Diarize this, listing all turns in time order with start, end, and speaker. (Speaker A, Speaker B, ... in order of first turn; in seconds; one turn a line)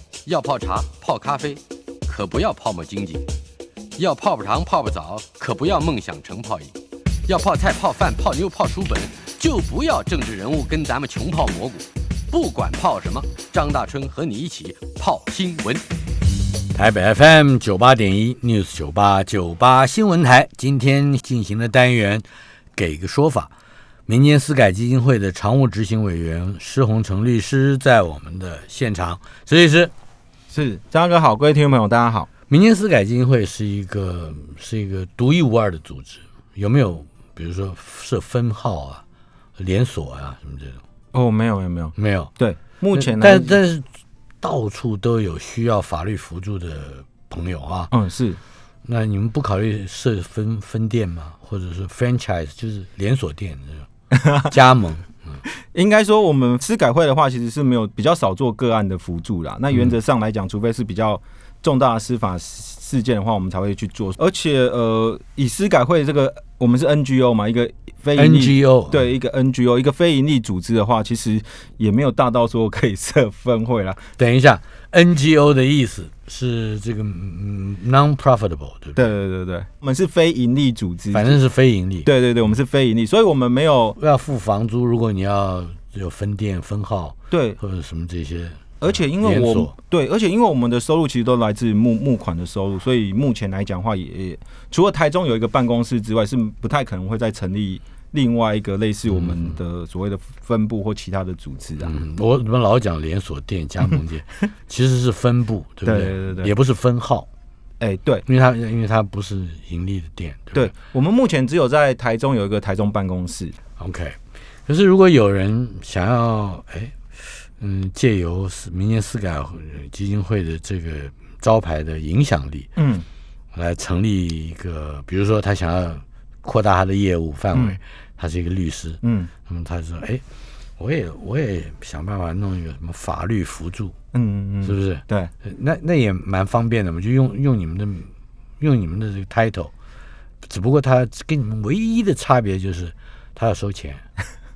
Speaker A: 0.2-3.2
Speaker A: 4.0-6.7
Speaker A: 7.3-15.8
Speaker B: 16.7-22.2
Speaker B: 22.8-23.5
Speaker B: 24.1-29.9
Speaker C: 30.5-32.3
Speaker B: 32.5-39.0
Speaker B: 39.6-40.8
Speaker C: 41.1-43.6
Speaker B: 42.0-42.3
Speaker B: 42.9-43.8
Speaker B: 44.4-47.9
Speaker C: 47.9-48.4
Speaker B: 48.8-53.9
Speaker C: 54.1-54.5
Speaker B: 54.5-55.4
Speaker C: 55.7-74.1
Speaker B: 68.2-69.0
Speaker B: 74.2-79.1
Speaker C: 79.0-81.4
Speaker B: 81.1-82.1
Speaker C: 82.0-84.0
Speaker B: 84.0-88.6
Speaker C: 87.3-87.6
Speaker C: 88.8-101.9
Speaker B: 89.2-89.7
Speaker B: 99.1-99.6
Speaker B: 101.8-107.3
Speaker C: 105.8-106.5
Speaker C: 107.8-108.2
Speaker B: 108.2-110.7
Speaker C: 110.5-113.5
Speaker B: 113.8-117.0
Speaker B: 117.6-122.7
Speaker C: 122.8-123.0
Speaker B: 123.5-130.2
Speaker C: 129.0-129.3
Speaker B: 130.8-133.9
Speaker C: 134.1-135.3
Speaker B: 134.6-139.7
Speaker B: 140.4-144.0